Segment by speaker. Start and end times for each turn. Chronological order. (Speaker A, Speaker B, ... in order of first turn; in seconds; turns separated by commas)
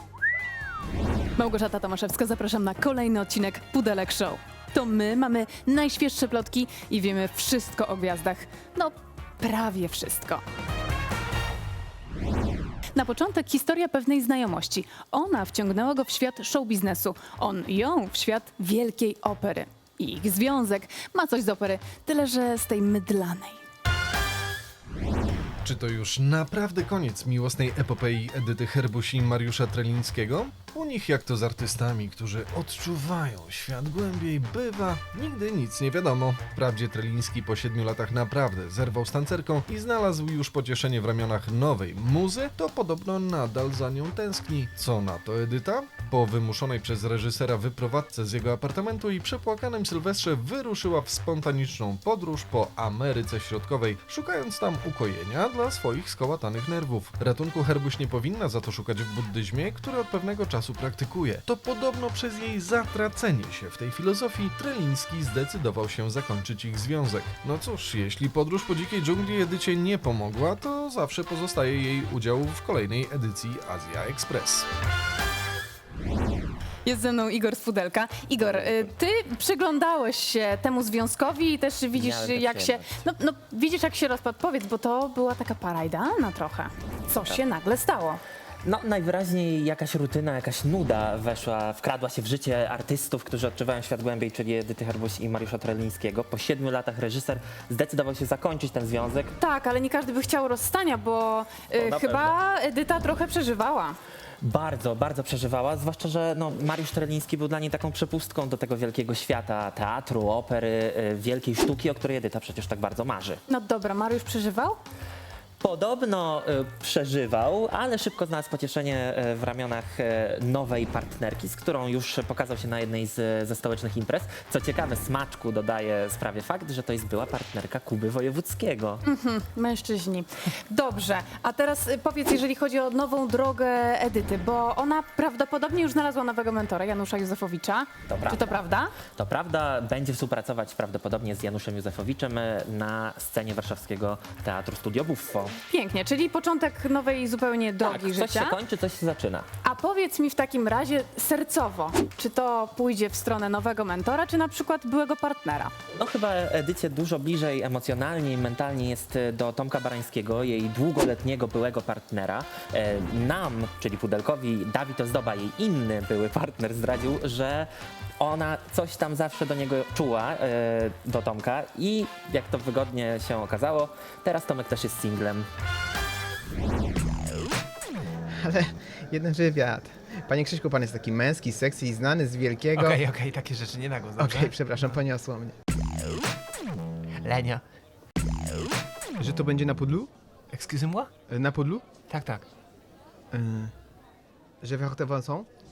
Speaker A: 1.4-10.4, Speaker A: 12.9-23.6, Speaker B: 25.6-74.7, Speaker A: 76.8-88.2, Speaker C: 81.9-82.9, Speaker C: 88.6-99.3, Speaker A: 99.4-104.0, Speaker C: 101.8-102.3, Speaker C: 104.4-113.4, Speaker A: 113.5-114.8, Speaker C: 115.6-129.0, Speaker A: 129.1-138.9, Speaker C: 138.1-138.6, Speaker C: 139.1-145.6, Speaker A: 145.7-148.6, Speaker C: 147.8-149.5, Speaker A: 149.6-155.7, Speaker C: 156.0-175.5, Speaker D: 178.4-183.0, Speaker E: 182.8-185.0, Speaker D: 184.2-185.6, Speaker E: 187.2-187.6, Speaker D: 189.2-190.1, Speaker E: 190.5-191.1, Speaker D: 191.3-191.8, Speaker E: 192.1-192.5, Speaker D: 193.3-193.7, Speaker D: 194.6-195.5